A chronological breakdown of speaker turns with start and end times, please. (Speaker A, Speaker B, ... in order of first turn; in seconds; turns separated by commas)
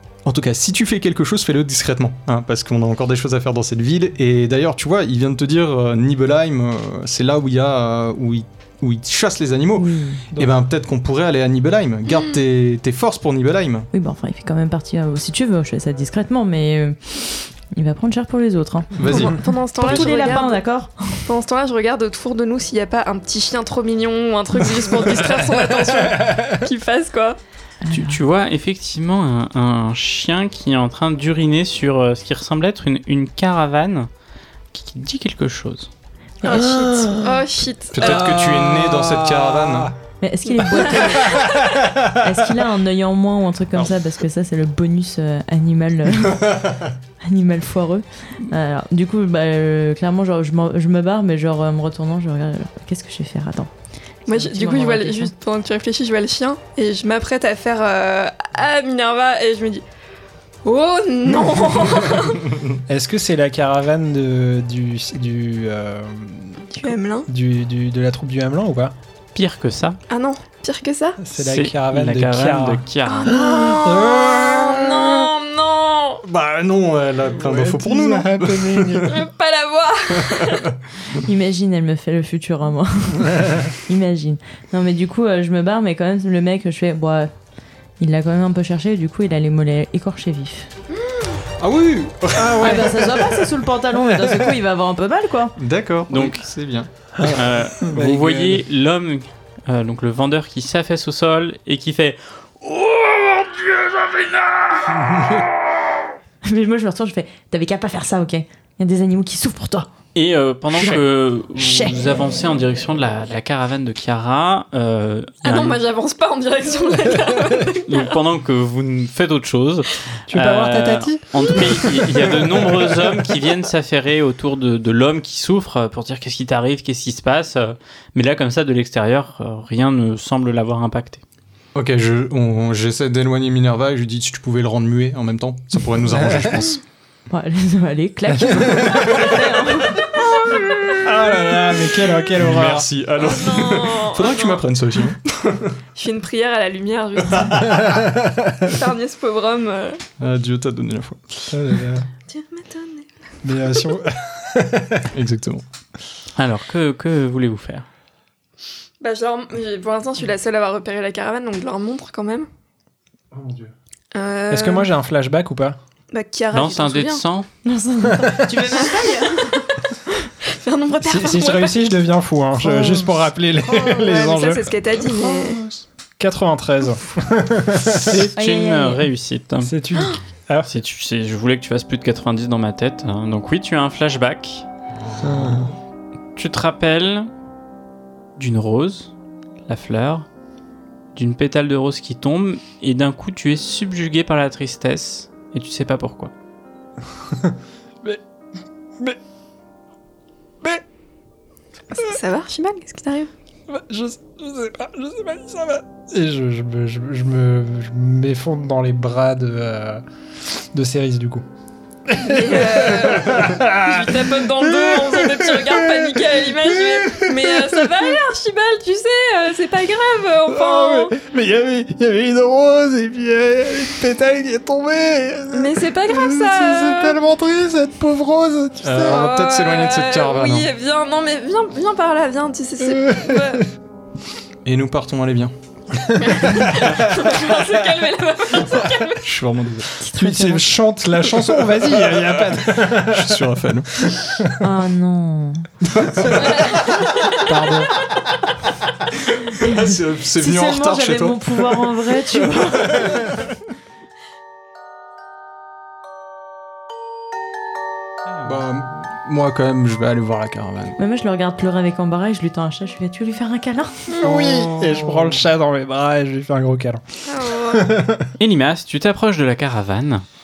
Speaker A: 0.2-13.9, Speaker B: 9.8-10.2, Speaker B: 13.9-19.3, Speaker A: 19.0-20.1, Speaker C: 19.1-20.6, Speaker B: 19.8-21.2, Speaker C: 21.3-27.4, Speaker D: 26.2-26.5, Speaker B: 27.8-28.2, Speaker E: 27.9-34.1, Speaker E: 34.7-35.9, Speaker C: 36.4-38.3, Speaker D: 36.5-37.4, Speaker A: 37.9-39.9, Speaker D: 38.0-39.9, Speaker B: 40.2-46.6, Speaker C: 40.5-41.4, Speaker D: 41.3-42.0, Speaker A: 46.3-46.8, Speaker B: 47.2-53.7, Speaker C: 54.3-59.8, Speaker B: 54.3-55.3, Speaker C: 60.6-62.5, Speaker A: 62.5-62.8, Speaker D: 62.9-68.9, Speaker C: 66.7-67.3, Speaker E: 69.3-70.0, Speaker C: 70.1-71.2, Speaker D: 71.2-75.3, Speaker E: 71.4-73.3, Speaker C: 73.0-76.2, Speaker A: 76.2-79.1, Speaker D: 77.3-79.2, Speaker C: 79.1-80.7, Speaker A: 80.2-80.7, Speaker B: 81.2-87.3, Speaker B: 88.0-90.7, Speaker A: 91.6-93.1, Speaker D: 92.3-93.3, Speaker B: 92.5-95.5, Speaker A: 95.6-96.9, Speaker E: 96.1-96.4, Speaker D: 97.2-98.6, Speaker E: 97.3-105.1, Speaker B: 106.4-109.9, Speaker E: 110.1-115.8, Speaker B: 110.7-112.1, Speaker C: 115.4-118.1, Speaker E: 117.9-131.2, Speaker D: 120.3-123.1, Speaker A: 131.7-136.8, Speaker B: 137.3-140.3, Speaker D: 138.3-139.3, Speaker C: 140.4-141.0, Speaker D: 140.9-142.9, Speaker A: 142.4-145.7, Speaker C: 143.2-144.6, Speaker C: 145.9-148.1, Speaker D: 147.9-148.5, Speaker C: 148.6-150.0, Speaker A: 150.2-151.5, Speaker D: 151.5-152.1, Speaker C: 152.3-153.1, Speaker D: 153.4-155.1, Speaker A: 155.1-155.6, Speaker E: 156.3-157.8, Speaker C: 159.0-162.5, Speaker C: 164.1-164.9, Speaker D: 164.5-165.8, Speaker C: 166.1-167.2, Speaker E: 166.5-167.5, Speaker B: 167.6-169.6, Speaker D: 168.1-168.7, Speaker C: 168.7-169.6, Speaker C: 170.4-171.8, Speaker D: 171.0-175.3, Speaker C: 172.8-173.0, Speaker C: 173.6-175.6, Speaker D: 176.2-178.2, Speaker E: 178.0-179.7, Speaker B: 178.3-179.1, Speaker D: 179.6-180.7, Speaker E: 180.7-184.6, Speaker D: 185.2-185.7, Speaker E: 186.3-187.3, Speaker E: 188.4-189.1, Speaker E: 189.7-190.3, Speaker E: 191.1-196.3, Speaker D: 197.3-198.2, Speaker C: 201.9-203.3, Speaker D: 203.7-211.4, Speaker D: 212.1-218.1, Speaker C: 212.2-221.2, Speaker D: 220.4-229.2, Speaker C: 225.5-227.2, Speaker A: 228.8-230.7, Speaker C: 229.0-233.7, Speaker D: 232.8-233.6, Speaker A: 234.6-235.5, Speaker D: 236.0-237.7, Speaker C: 236.2-239.2, Speaker A: 239.2-239.9, Speaker B: 240.0-240.7, Speaker D: 240.1-243.4, Speaker A: 242.1-244.3, Speaker D: 244.2-244.6, Speaker B: 244.6-245.7, Speaker A: 245.8-246.8, Speaker C: 246.4-247.4, Speaker D: 247.4-247.9, Speaker A: 249.2-252.0, Speaker B: 249.6-253.3, Speaker A: 258.4-261.0, Speaker B: 261.0-264.2, Speaker D: 264.2-268.3, Speaker A: 264.5-265.2, Speaker C: 267.2-267.9, Speaker E: 268.4-270.2